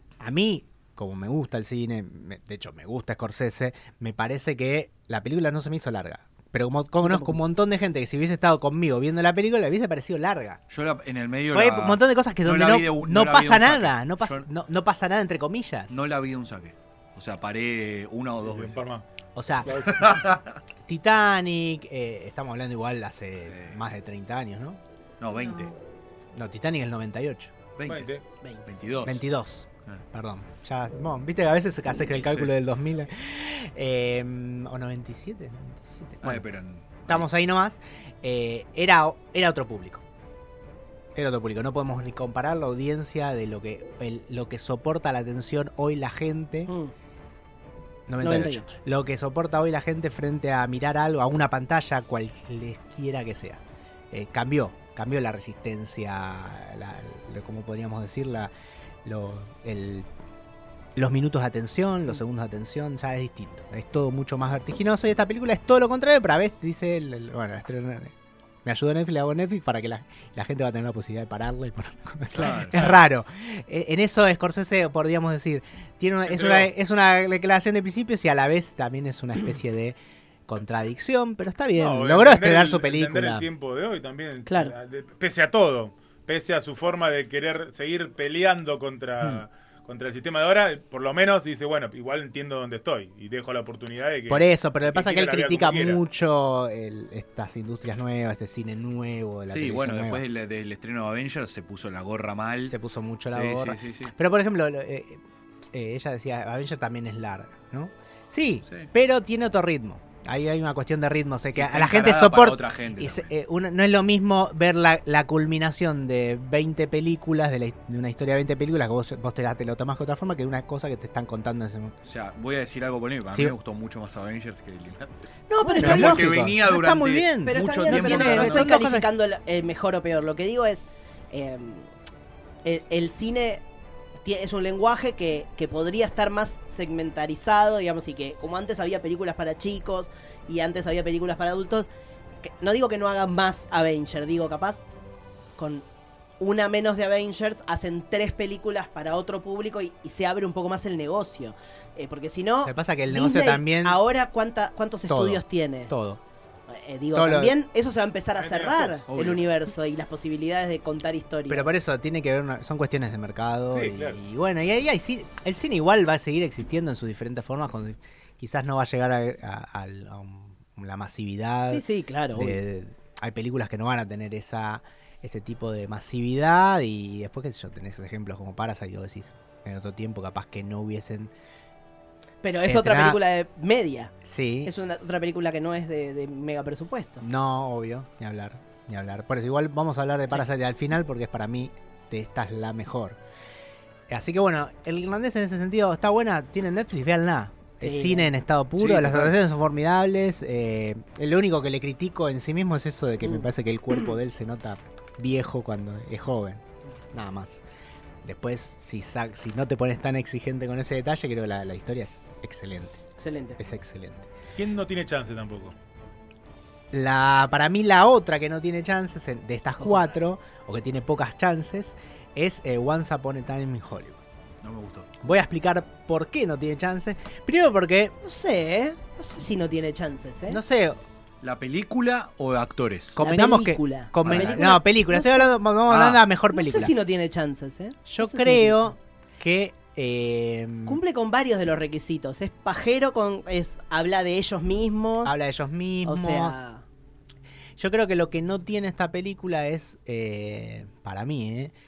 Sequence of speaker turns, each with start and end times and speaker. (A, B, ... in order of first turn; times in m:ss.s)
0:00.2-0:10.6 A
0:07.0-0:07.4 B
0:10.7-0:14.4 C
0:11.5-0:15.9 A
0:15.9-0:18.8 C
0:18.4-0:19.0 D
0:19.4-0:20.1 A
0:19.7-0:20.2 D
0:19.8-0:20.6 C
0:20.9-0:24.8 A
0:23.4-0:23.8 C
0:25.2-0:25.7 C
0:26.3-0:27.5 A
0:27.8-0:28.1 C
0:27.9-0:28.2 D
0:28.6-0:29.2 C
0:29.0-0:36.4 A
0:32.2-0:32.5 C
0:36.2-0:37.3 C
0:37.1-0:40.0 A
0:41.2-0:46.7 A
0:46.7-0:46.9 B
0:48.1-0:58.5 A
0:48.2-0:48.7 B
0:59.0-1:00.1 A
1:01.0-1:08.1 A
1:08.6-1:23.5 A
1:12.3-1:13.0 C
1:12.7-1:13.0 D
1:16.3-1:16.7 D
1:21.8-1:36.0 D
1:24.5-1:24.7 B
1:34.3-1:40.2 A
1:39.5-1:42.8 C
1:42.7-2:02.0 A
1:43.3-1:44.1 C
1:51.6-1:53.3 C
2:02.0-2:05.1 C
2:05.5-2:06.4 B
2:05.6-2:09.1 A
2:05.8-2:08.7 C
2:07.4-2:11.9 B
2:12.6-2:13.6 B
2:14.2-2:21.9 B
2:22.4-2:24.8 B
2:25.6-2:25.8 B
2:26.4-2:35.9 B
2:32.6-2:34.0 A
2:35.1-2:36.2 A
2:36.7-2:41.7 B
2:37.1-2:37.6 A
2:38.4-2:39.0 D
2:39.1-2:39.4 C
2:41.5-3:01.3 A
2:43.7-2:44.2 D
2:51.7-2:52.6 B
3:02.4-3:04.1 B
3:02.7-3:03.2 A
3:04.2-3:04.7 A
3:04.6-3:07.2 B
3:07.2-3:13.2 A
3:14.1-3:27.6 A
3:17.8-3:18.3 B
3:18.8-3:19.3 C
3:28.2-3:33.0 A
3:33.2-3:33.6 B
3:33.6-3:34.3 A
3:34.6-3:35.8 D
3:36.9-3:44.2 A
3:39.8-3:40.1 B
3:44.6-3:45.1 C
3:45.2-3:48.1 A
3:48.2-3:50.6 B
3:50.5-3:51.0 A
3:51.4-3:53.2 C
3:53.2-3:56.9 A
3:53.2-3:55.6 B
3:54.2-3:54.6 C
3:55.9-3:56.2 C
3:56.5-3:59.0 B
3:58.1-4:01.0 A
4:00.9-4:05.4 B
4:05.2-4:06.6 A
4:06.0-4:06.8 B
4:07.8-4:11.7 A